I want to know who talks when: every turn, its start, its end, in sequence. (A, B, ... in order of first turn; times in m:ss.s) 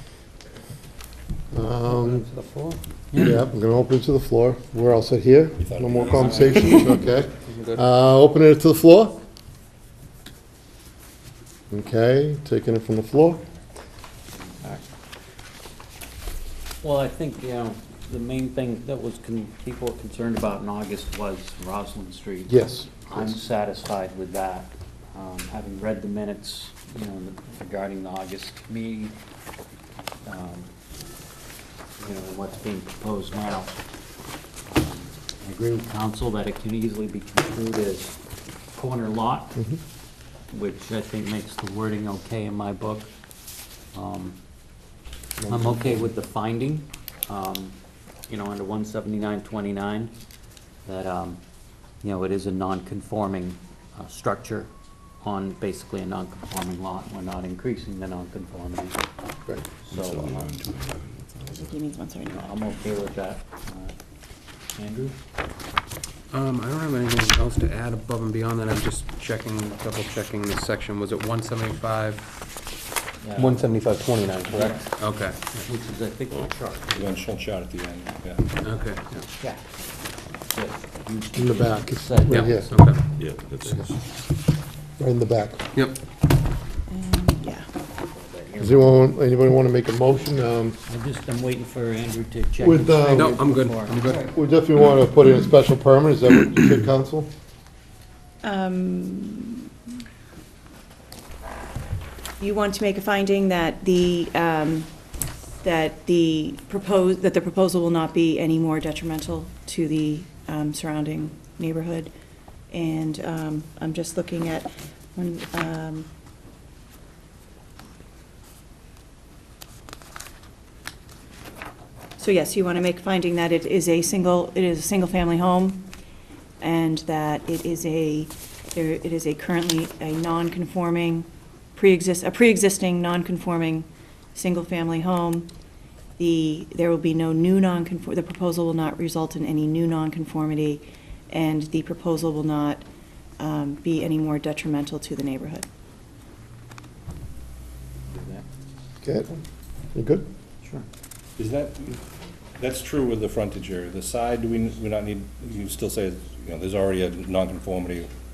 0:01.5-0:02.3 A
0:01.8-0:03.4 B
0:03.2-0:09.2 A
0:05.6-0:07.1 C
0:06.1-0:07.8 D
0:11.7-0:13.4 A
0:16.8-0:29.2 B
0:22.5-0:23.4 A
0:30.2-0:30.7 B
0:32.0-0:33.8 B
0:34.7-0:38.2 B
0:38.7-0:39.6 B
0:40.5-0:43.1 B
0:43.9-0:44.4 B
0:45.4-0:46.1 A
0:45.5-0:47.8 B
0:48.3-0:50.1 B
0:50.9-0:51.4 B
0:52.0-0:54.7 B
0:55.2-0:59.0 B
0:59.9-1:00.5 B
0:59.9-1:01.7 E
1:01.5-1:02.5 F
1:02.3-1:04.0 B
1:04.8-1:05.2 B
1:06.3-1:12.3 D
1:13.2-1:13.7 B
1:13.4-1:15.6 D
1:14.5-1:14.9 B
1:15.5-1:17.1 B
1:16.9-1:18.5 C
1:18.6-1:19.3 D
1:19.4-1:19.7 B
1:20.5-1:22.6 B
1:21.4-1:22.9 A
1:22.3-1:23.0 D
1:23.1-1:23.9 E
1:25.0-1:25.6 A
1:26.9-1:27.7 F
1:28.1-1:29.1 B
1:28.6-1:30.8 A
1:30.9-1:34.0 B
1:32.6-1:33.4 A
1:33.1-1:34.3 D
1:34.1-1:37.3 A
1:38.4-1:39.7 F
1:42.4-1:44.9 F
1:45.6-1:52.1 F
1:52.7-1:56.1 F
2:02.2-2:05.9 F
2:06.6-2:15.5 F
2:16.2-2:22.9 F
2:23.4-2:25.6 F
2:28.1-2:28.5 B
2:29.0-2:29.4 A
2:30.0-2:30.3 A
2:31.4-2:32.0 C
2:32.6-2:38.1 C